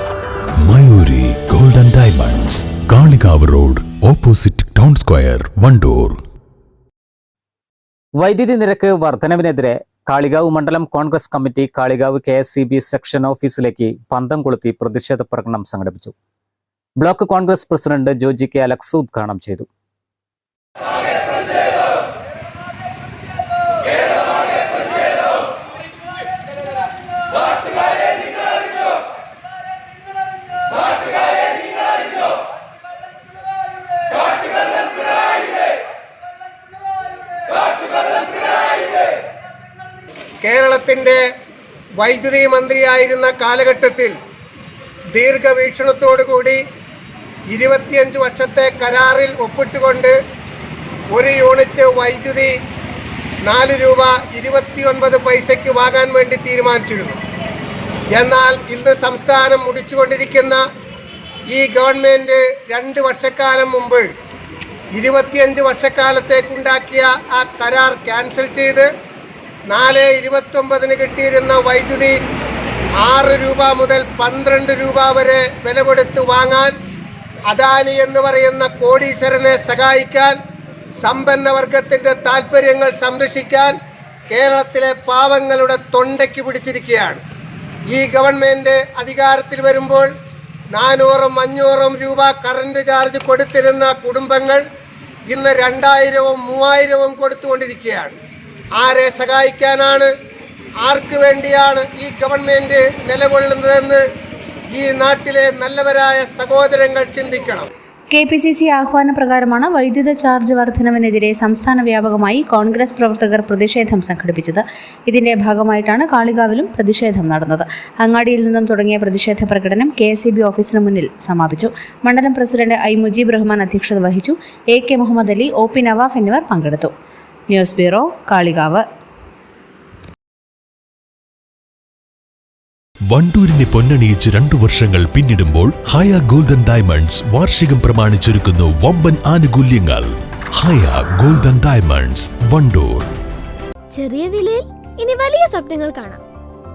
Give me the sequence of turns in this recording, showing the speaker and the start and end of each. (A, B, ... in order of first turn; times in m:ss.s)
0:00.6-0:06.2 A
0:08.2-0:16.1 B
0:17.0-0:19.7 B
0:40.4-0:41.2 C
0:42.0-0:44.2 C
0:45.2-0:46.6 C
0:47.5-0:50.2 C
0:51.1-0:52.5 C
0:53.4-0:57.2 C
0:58.1-1:00.6 C
1:01.5-1:04.1 C
1:05.0-1:08.9 C
1:09.7-1:12.2 C
1:13.0-1:16.8 C
1:17.5-1:20.4 C
1:21.0-1:23.8 C
1:24.3-1:27.2 C
1:27.9-1:30.1 C
1:30.7-1:34.6 C
1:35.3-1:38.2 C
1:38.8-1:40.1 C
1:40.8-1:44.0 C
1:44.7-1:47.7 C
1:48.1-2:06.9 D
2:07.5-2:08.8 D
2:13.1-2:23.1 A
2:24.0-2:26.2 E